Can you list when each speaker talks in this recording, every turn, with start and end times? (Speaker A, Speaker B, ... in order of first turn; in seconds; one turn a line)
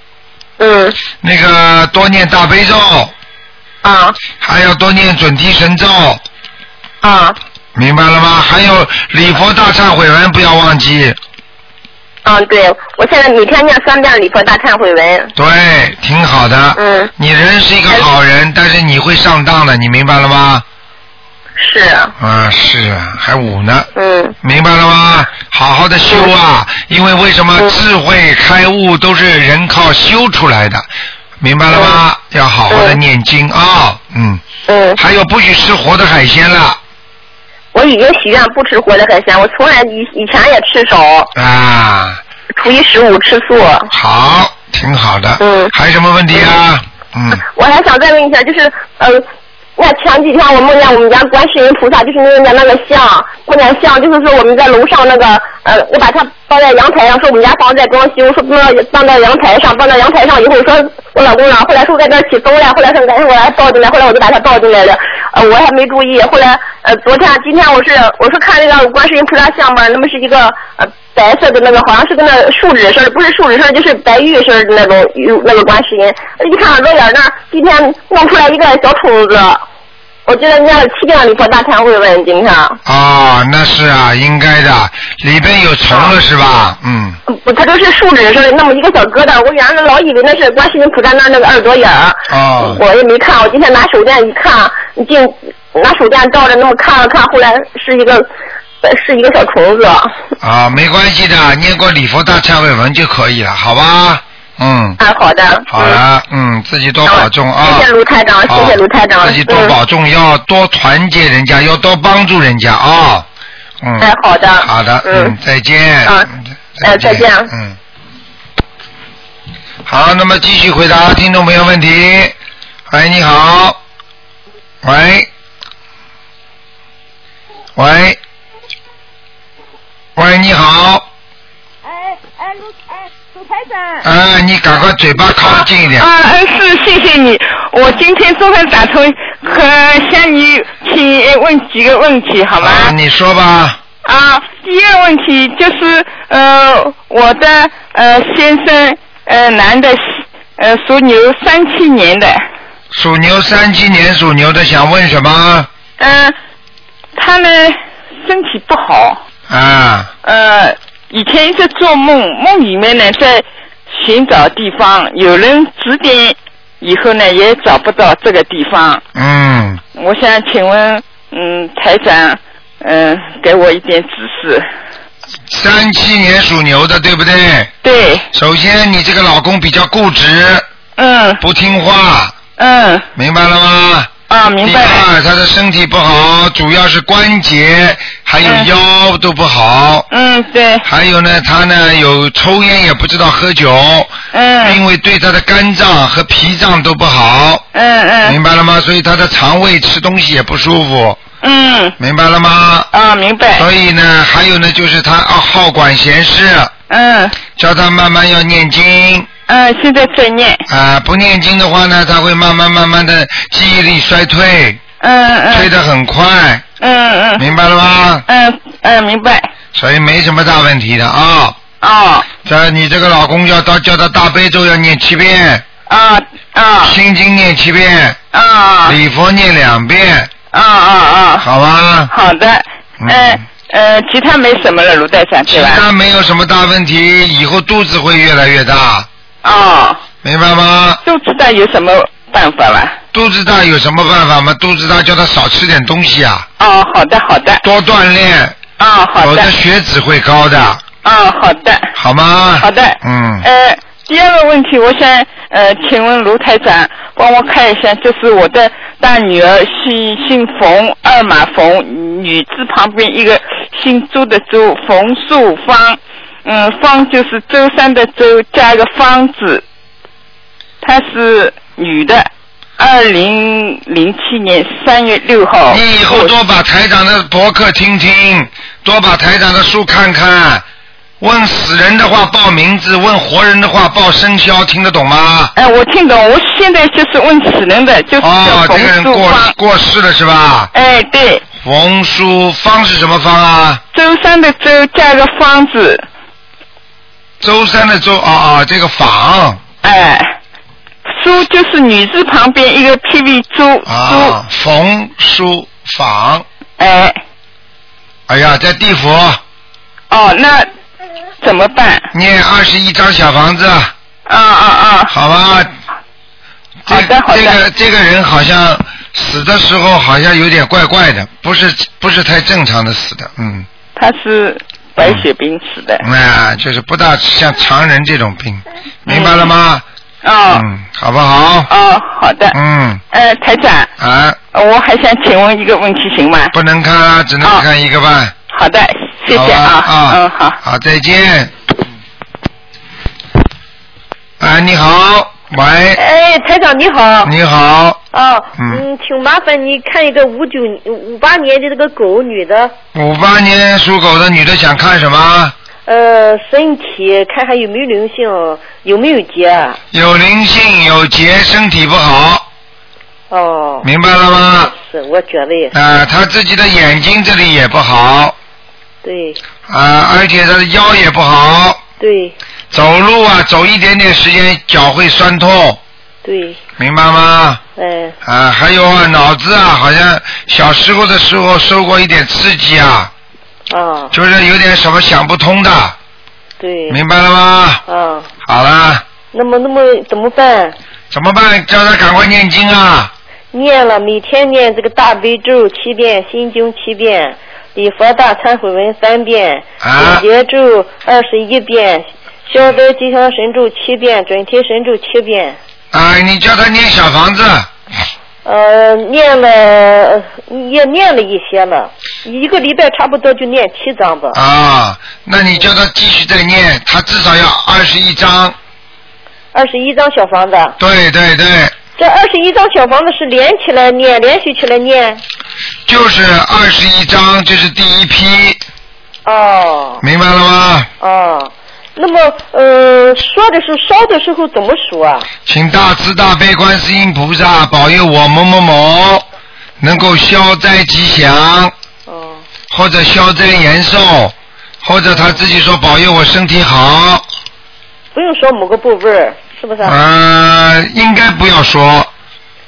Speaker A: 0.6-1.0
Speaker B: 1.2-3.1
Speaker A: 3.8-4.2
Speaker B: 4.4-6.2
Speaker A: 7.0-7.4
Speaker B: 7.8-11.2
Speaker A: 12.2-15.3
Speaker B: 15.3-20.6
Speaker A: 16.8-17.1
Speaker A: 21.6-22.1
Speaker B: 22.2-23.9
Speaker A: 24.0-24.4
Speaker B: 24.4-30.9
Speaker B: 31.4-34.4
Speaker A: 31.7-32.0
Speaker A: 32.7-33.0
Speaker A: 34.7-35.0
Speaker B: 35.0-36.8
Speaker A: 37.7-41.3
Speaker B: 41.4-42.2
Speaker A: 42.6-43.9
Speaker B: 43.9-47.4
Speaker A: 45.4-45.7
Speaker A: 47.4-49.2
Speaker A: 49.8-79.6
Speaker A: 80.3-82.8
Speaker B: 82.8-87.2
Speaker A: 87.3-98.3
Speaker B: 92.3-92.8
Speaker A: 98.8-100.2
Speaker B: 100.4-105.0
Speaker A: 105.0-106.0
Speaker B: 105.7-107.9
Speaker A: 107.1-109.7
Speaker B: 108.5-113.3
Speaker B: 113.8-117.8
Speaker A: 114.0-115.3
Speaker A: 116.8-117.5
Speaker B: 119.9-122.3
Speaker B: 122.9-123.8
Speaker B: 124.8-125.3
Speaker B: 127.8-128.2
Speaker B: 130.2-131.1
Speaker B: 134.0-136.1
Speaker C: 135.4-142.9
Speaker B: 142.6-143.8
Speaker C: 144.0-152.4
Speaker B: 152.9-155.7
Speaker C: 156.0-156.3
Speaker C: 157.2-159.2
Speaker B: 159.5-160.1
Speaker C: 160.2-169.0
Speaker B: 169.1-169.8
Speaker C: 170.0-174.7
Speaker B: 175.5-177.7
Speaker C: 177.8-178.3
Speaker B: 178.3-180.7
Speaker C: 181.0-181.4
Speaker B: 181.4-182.4
Speaker C: 182.6-183.1
Speaker B: 183.2-184.1
Speaker C: 184.3-185.1
Speaker B: 184.6-190.1
Speaker C: 188.4-188.7
Speaker C: 190.1-190.8
Speaker B: 190.8-197.6
Speaker C: 194.3-194.8
Speaker C: 197.8-198.4
Speaker B: 198.2-201.2
Speaker C: 201.4-202.0
Speaker B: 202.0-202.9
Speaker C: 202.9-203.7
Speaker B: 203.6-206.7
Speaker C: 206.9-207.4
Speaker B: 207.6-209.3
Speaker C: 209.5-210.6
Speaker B: 210.7-214.8
Speaker C: 215.0-215.7
Speaker B: 215.5-216.7
Speaker C: 216.8-217.4
Speaker B: 217.4-218.2
Speaker C: 218.3-219.5
Speaker B: 219.7-221.6
Speaker C: 221.8-222.3
Speaker B: 222.4-225.7
Speaker C: 225.9-226.9
Speaker B: 226.8-228.2
Speaker C: 228.3-229.0
Speaker B: 228.8-230.3
Speaker C: 230.5-231.5
Speaker B: 231.4-232.1
Speaker C: 232.1-235.8
Speaker B: 233.0-233.4
Speaker B: 235.5-239.1
Speaker C: 239.4-240.0
Speaker B: 240.2-241.0
Speaker C: 241.0-243.0
Speaker B: 243.1-246.5
Speaker C: 246.6-247.6
Speaker B: 247.6-248.6
Speaker C: 248.8-249.5
Speaker B: 249.2-250.8
Speaker C: 251.0-251.9
Speaker B: 252.0-253.4
Speaker C: 252.6-269.6
Speaker C: 270.8-276.3
Speaker B: 275.7-280.6
Speaker B: 281.2-285.5
Speaker C: 285.6-289.5
Speaker B: 288.2-290.7
Speaker C: 290.7-291.5
Speaker B: 291.6-293.8
Speaker C: 293.9-296.1
Speaker B: 297.4-299.6
Speaker C: 299.8-300.4
Speaker C: 301.1-304.4
Speaker B: 303.9-306.4
Speaker C: 306.8-307.2
Speaker B: 308.3-309.4
Speaker C: 310.1-310.7
Speaker C: 311.4-312.1
Speaker B: 312.1-313.9
Speaker C: 314.3-315.1
Speaker B: 315.1-315.7
Speaker B: 316.9-323.7
Speaker C: 316.9-317.6
Speaker C: 324.0-326.1
Speaker B: 326.0-329.8
Speaker C: 329.1-329.5
Speaker C: 330.2-330.7
Speaker B: 330.5-331.7
Speaker C: 331.7-332.6
Speaker B: 332.5-333.0
Speaker C: 333.1-333.9
Speaker B: 334.0-334.4
Speaker C: 334.5-336.5
Speaker B: 336.5-338.3
Speaker C: 338.5-340.6
Speaker B: 339.3-341.5
Speaker B: 344.4-346.0
Speaker D: 346.0-347.3
Speaker B: 347.2-348.0
Speaker D: 348.1-352.7
Speaker B: 348.6-348.8
Speaker B: 352.9-355.5
Speaker D: 355.9-359.8
Speaker B: 359.9-362.4
Speaker D: 363.3-363.9
Speaker B: 363.8-364.7
Speaker D: 364.7-365.8
Speaker B: 365.7-368.4
Speaker D: 369.0-369.4
Speaker B: 369.7-371.8
Speaker D: 372.0-372.4
Speaker B: 372.7-375.8
Speaker D: 376.2-376.6
Speaker B: 376.8-377.6
Speaker D: 377.8-378.1
Speaker B: 378.2-383.1
Speaker D: 383.7-384.1
Speaker B: 384.1-386.0
Speaker D: 386.6-387.0
Speaker B: 386.9-387.8
Speaker D: 387.9-388.3
Speaker B: 388.4-389.0
Speaker D: 389.3-390.8
Speaker B: 391.1-393.1
Speaker D: 393.5-405.6
Speaker B: 399.8-400.2
Speaker B: 405.9-407.7
Speaker D: 408.4-414.4
Speaker B: 414.3-418.6
Speaker D: 419.5-420.8
Speaker B: 420.8-421.8
Speaker D: 422.0-425.2
Speaker B: 425.9-428.6
Speaker D: 429.2-430.0
Speaker B: 430.0-430.9
Speaker D: 431.0-435.3
Speaker B: 435.5-439.3
Speaker B: 439.8-441.7
Speaker D: 442.1-442.4
Speaker B: 442.7-447.2
Speaker D: 445.1-445.4
Speaker D: 448.1-450.0
Speaker B: 449.8-452.1